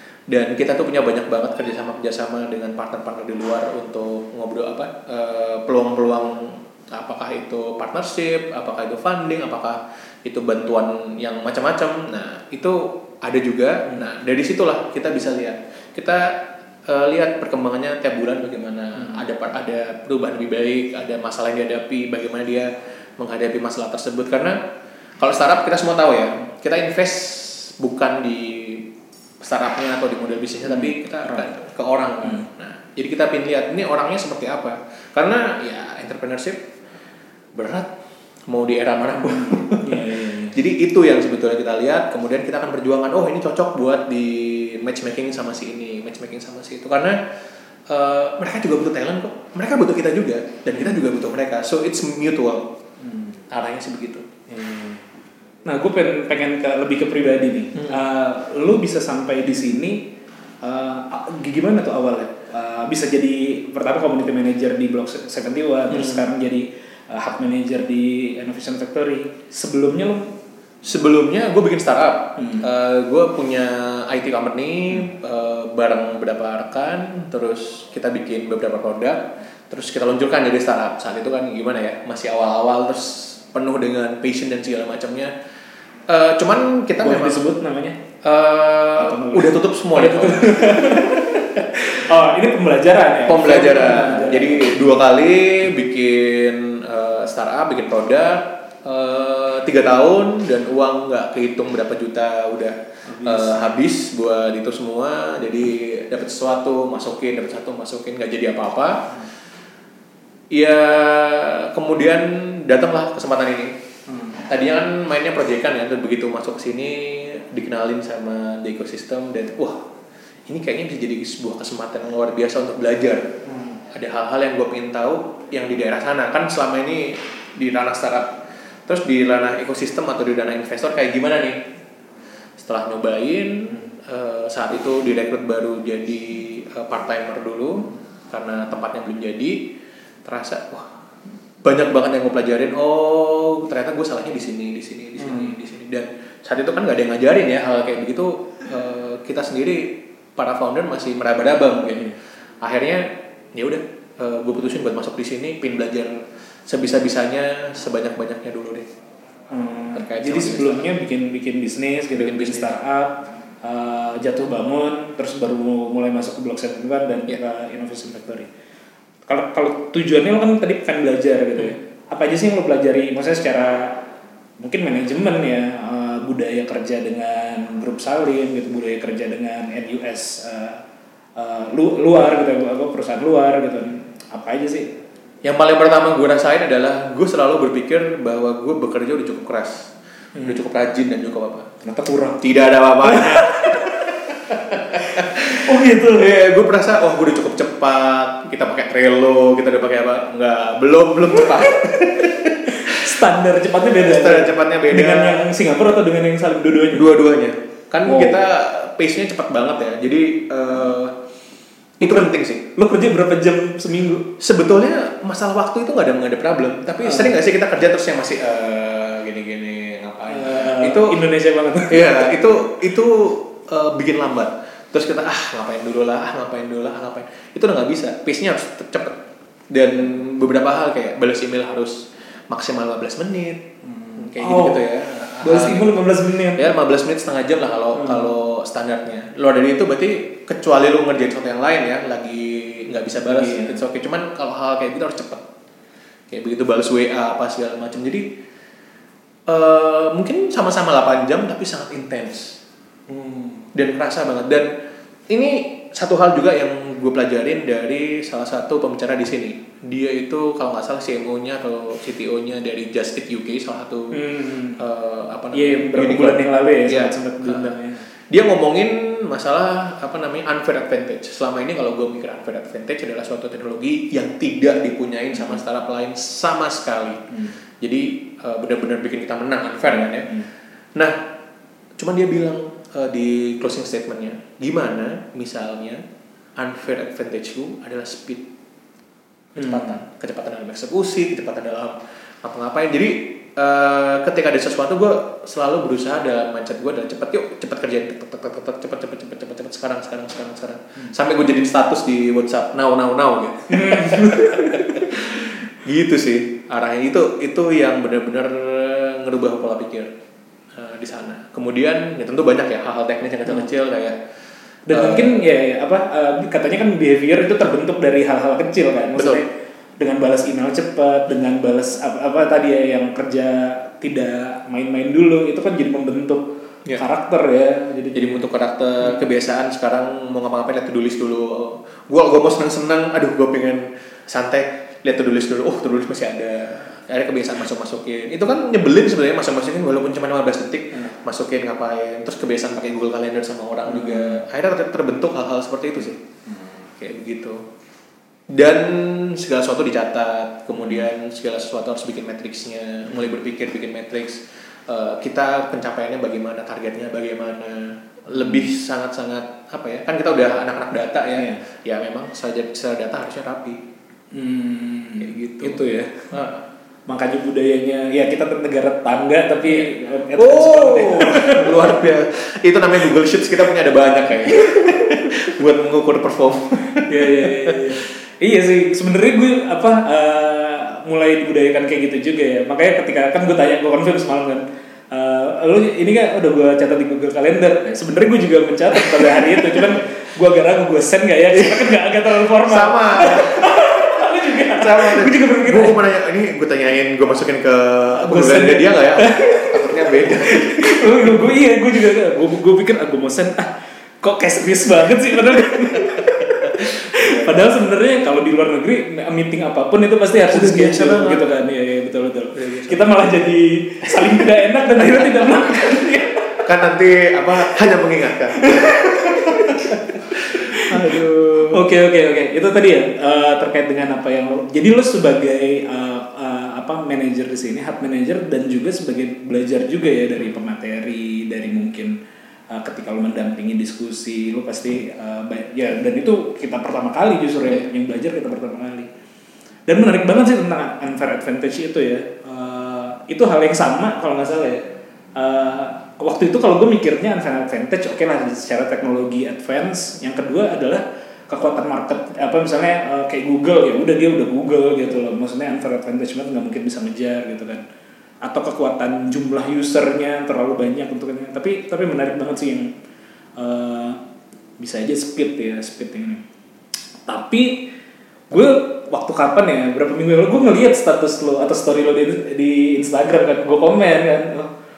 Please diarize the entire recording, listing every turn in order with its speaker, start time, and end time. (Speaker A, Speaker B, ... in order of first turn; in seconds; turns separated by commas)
Speaker A: 0.3-24.6, Speaker A: 25.2-28.9, Speaker A: 29.4-36.6, Speaker B: 30.6-31.5, Speaker B: 32.2-32.5, Speaker A: 37.5-37.9, Speaker A: 38.5-47.2, Speaker B: 39.1-40.6, Speaker A: 47.9-52.7, Speaker B: 53.0-53.4, Speaker A: 53.5-54.3, Speaker B: 54.5-55.0, Speaker B: 55.6-60.0, Speaker B: 60.6-70.3, Speaker A: 65.9-66.2, Speaker A: 70.8-85.3, Speaker B: 72.4-72.7, Speaker A: 86.1-87.4, Speaker B: 87.0-88.0, Speaker A: 88.2-91.2, Speaker B: 89.0-94.8, Speaker A: 93.2-109.0, Speaker B: 103.1-103.8, Speaker A: 110.5-113.7, Speaker B: 114.1-114.5, Speaker A: 114.5-119.8, Speaker A: 120.5-123.2, Speaker B: 123.5-123.8, Speaker A: 123.9-131.6, Speaker A: 132.6-139.6, Speaker A: 140.2-140.9, Speaker A: 141.6-158.8, Speaker B: 145.2-145.6, Speaker B: 159.5-168.5, Speaker A: 159.9-160.8, Speaker A: 162.1-162.7, Speaker B: 169.3-174.0, Speaker B: 174.6-180.8, Speaker B: 181.4-184.9, Speaker A: 185.4-189.9, Speaker B: 190.4-190.6, Speaker A: 190.4-191.7, Speaker B: 191.8-192.4, Speaker A: 192.4-203.2, Speaker B: 193.0-196.4, Speaker B: 201.4-207.1, Speaker A: 203.8-205.5, Speaker A: 206.9-211.1, Speaker B: 208.1-208.4, Speaker A: 212.0-212.6, Speaker B: 212.0-214.3, Speaker A: 214.4-221.2, Speaker B: 217.0-217.3, Speaker B: 220.3-222.3, Speaker A: 221.9-229.2, Speaker A: 229.7-233.6, Speaker B: 233.8-236.7, Speaker A: 234.2-245.4, Speaker B: 237.9-238.3, Speaker B: 243.2-243.8, Speaker A: 246.3-248.3, Speaker A: 249.5-252.6, Speaker B: 253.1-253.7, Speaker A: 253.7-254.7, Speaker A: 255.3-264.2, Speaker B: 264.1-264.8, Speaker A: 264.8-267.7, Speaker B: 265.5-268.1, Speaker A: 268.3-277.2, Speaker A: 277.8-281.2, Speaker A: 282.0-286.0, Speaker A: 286.6-288.4, Speaker A: 289.6-310.1, Speaker B: 289.6-290.0, Speaker B: 303.7-305.4, Speaker A: 310.7-314.2, Speaker B: 314.9-328.5, Speaker A: 314.9-315.4, Speaker A: 319.1-319.4, Speaker A: 328.1-346.2, Speaker B: 343.9-344.4, Speaker B: 346.5-346.9, Speaker A: 347.0-347.6, Speaker A: 348.5-363.8, Speaker B: 358.3-358.6, Speaker B: 361.4-361.6, Speaker B: 364.3-366.4, Speaker A: 365.2-366.6, Speaker B: 367.1-372.0, Speaker A: 369.6-377.9, Speaker B: 374.5-375.4, Speaker B: 376.8-396.0, Speaker A: 388.9-390.0, Speaker A: 391.5-401.4, Speaker B: 398.1-416.6, Speaker A: 406.0-407.6, Speaker A: 410.4-411.5, Speaker A: 412.5-413.1, Speaker A: 414.1-414.5, Speaker A: 416.6-421.8, Speaker B: 418.5-432.1, Speaker B: 432.7-439.1, Speaker B: 439.9-444.8, Speaker B: 445.3-457.8, Speaker B: 458.4-462.9, Speaker B: 463.6-464.2, Speaker B: 464.8-466.4, Speaker B: 467.3-467.8, Speaker B: 468.5-474.7